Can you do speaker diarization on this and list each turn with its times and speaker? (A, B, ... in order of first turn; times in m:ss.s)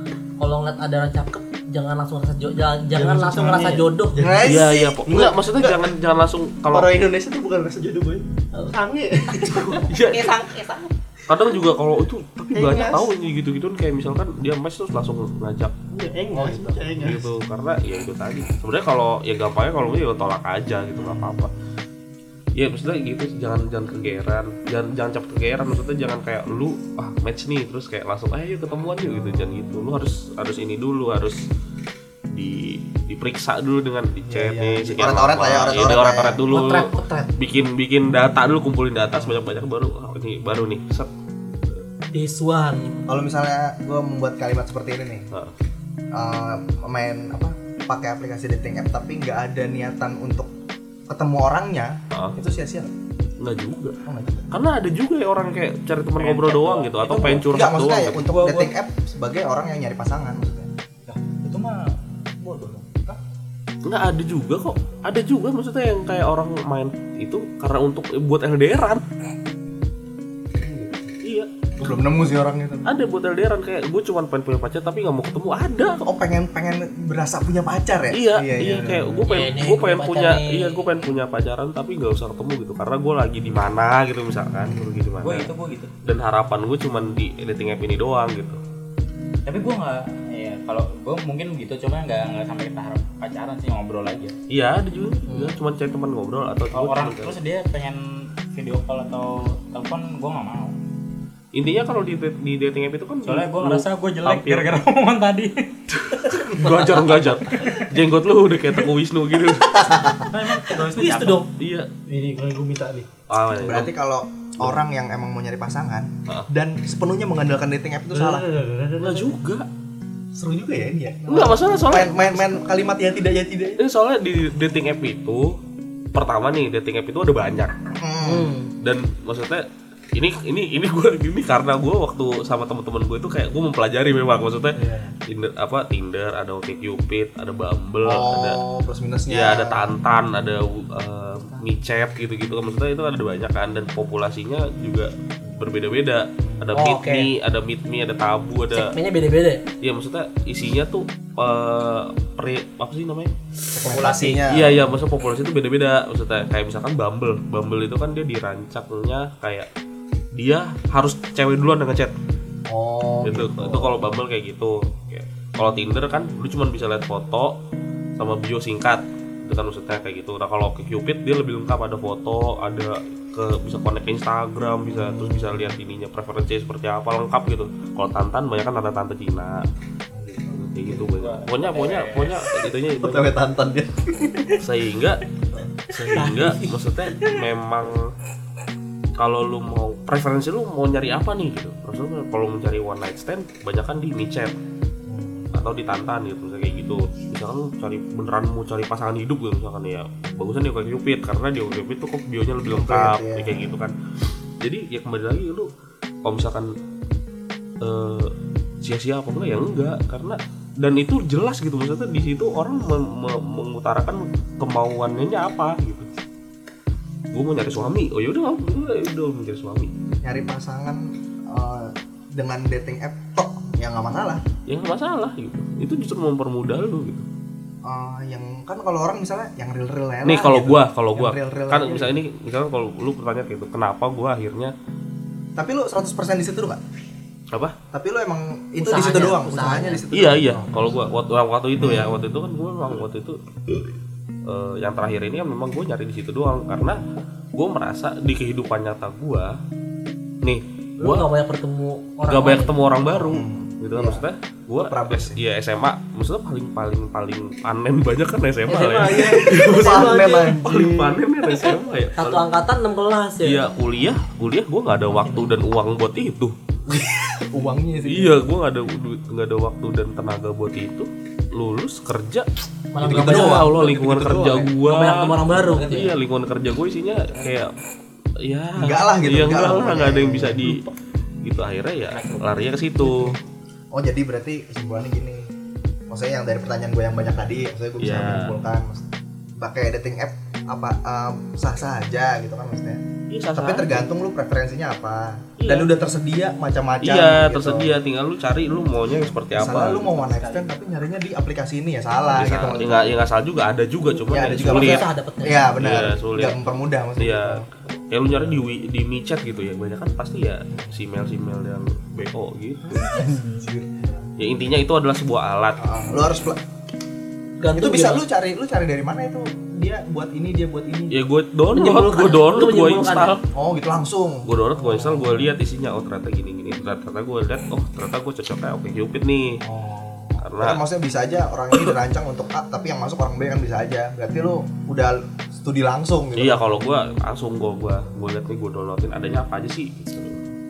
0:00.4-0:04.3 A
0:03.0-0:05.4 B
0:04.2-0:05.7 C
0:04.4-0:06.9 D
0:06.7-0:09.9 B
0:09.6-0:10.3 D
0:09.9-0:10.9 A
0:11.3-0:15.8 D
0:12.6-0:13.0 B
0:15.9-0:17.3 B
0:16.3-0:16.8 C
0:17.0-0:21.5 D
0:21.0-0:21.6 C
0:22.6-0:31.5 D
0:29.0-0:29.9 C
0:32.3-0:41.1 D
0:34.3-0:36.4 C
0:36.5-0:37.3 A
0:39.1-0:39.4 C
0:42.1-0:43.0 A
0:43.1-0:45.3 C
0:46.1-0:50.5 C
0:51.1-0:52.9 C
0:52.1-0:52.4 D
0:53.4-0:54.0 D
0:54.1-0:54.5 C
0:54.5-0:58.2 D
0:56.2-0:57.5 E
0:57.3-1:00.7 C
0:58.2-0:58.7 E
1:01.1-1:03.2 E
1:03.8-1:09.0 D
1:10.6-1:11.0 C
1:11.2-1:11.5 D
1:11.8-1:12.9 C
1:12.9-1:16.0 D
1:16.0-1:19.3 C
1:18.1-1:25.5 D
1:19.3-1:21.0 A
1:24.6-1:25.1 C
1:25.2-1:25.9 E
1:26.0-1:28.6 D
1:29.5-1:34.4 E
1:34.5-1:37.4 D
1:35.3-1:35.6 C
1:36.7-1:40.8 E
1:41.5-1:44.8 D
1:43.2-1:45.7 E
1:45.9-1:50.0 D
1:46.2-1:47.9 E
1:49.8-1:50.2 C
1:50.3-1:51.5 E
1:51.0-1:51.4 A
1:51.5-1:51.9 D
1:52.1-1:53.1 B
1:53.3-1:53.9 D
1:53.6-1:58.5 C
1:58.1-1:59.3 B
1:59.0-1:59.7 D
2:00.3-2:03.8 C
2:01.3-2:02.5 D
2:03.8-2:05.6 D
2:06.1-2:07.7 D
2:08.0-2:08.5 C
2:08.2-2:08.7 A
2:08.8-2:18.6 D
2:14.8-2:15.2 C
2:18.0-2:19.9 C
2:19.3-2:28.9 D
2:26.4-2:26.7 C
2:26.7-2:27.3 A
2:28.7-2:29.6 A
2:29.8-2:33.3 D
2:33.8-2:35.0 C
2:33.8-2:34.5 E
2:34.5-2:39.7 D
2:40.3-2:42.2 D
2:42.7-2:44.0 C
2:43.2-2:47.6 D
2:48.2-2:59.7 D
2:54.9-2:55.8 C
3:00.1-3:01.0 C
3:00.5-3:03.4 D
3:01.0-3:02.6 E
3:03.0-3:04.6 C
3:04.6-3:05.2 D
3:05.9-3:08.1 D
3:06.2-3:06.7 A
3:09.2-3:14.6 D
3:15.0-3:15.5 C
3:15.5-3:23.9 D
3:22.7-3:23.8 C
3:24.6-3:25.7 D
3:26.2-3:26.7 D
3:27.8-3:36.1 D
3:37.3-3:40.2 D
3:40.2-3:44.4 C
3:44.7-3:47.3 D
3:47.8-3:52.2 C
3:50.2-3:54.7 D
3:55.6-3:56.8 C
3:57.9-4:01.0 C
3:58.8-4:00.0 A
4:00.1-4:03.4 D
4:01.8-4:02.2 C
4:04.5-4:07.0 D
4:07.5-4:09.6 D
4:10.4-4:11.3 D
4:11.0-4:12.8 A
4:12.3-4:22.4 D
4:13.1-4:14.3 C
4:14.8-4:15.4 C
4:18.7-4:20.8 A
4:19.0-4:21.2 C
4:21.6-4:23.7 A
4:23.4-4:26.6 D
4:26.9-4:28.4 C
4:28.1-4:32.5 D
4:32.9-4:33.8 A
4:33.0-4:34.7 C
4:33.0-4:37.7 D
4:34.8-4:36.1 A
4:38.4-4:40.8 D
4:38.8-4:40.9 C
4:41.4-4:43.4 D
4:42.1-4:42.6 E
4:43.9-4:45.5 C
4:46.1-4:49.0 C
4:48.0-4:48.6 D
4:49.6-4:53.0 C
4:53.3-4:54.1 D
4:53.6-4:58.0 C
4:55.6-4:55.9 D
4:57.0-5:00.2 D
4:59.5-5:03.2 C
5:00.4-5:00.7 E
5:02.3-5:05.0 D
5:04.2-5:07.7 C
5:04.6-5:05.7 A
5:05.8-5:06.7 D
5:07.2-5:13.1 D
5:08.3-5:08.6 C
5:10.7-5:11.0 C
5:13.0-5:14.2 C
5:14.4-5:15.8 D
5:15.8-5:16.6 C
5:17.6-5:18.2 A
5:17.7-5:21.2 C
5:21.1-5:23.4 D
5:21.7-5:23.4 A
5:23.5-5:25.5 C
5:24.4-5:29.6 D
5:29.6-5:36.7 C
5:30.4-5:30.8 D
5:36.4-5:40.4 D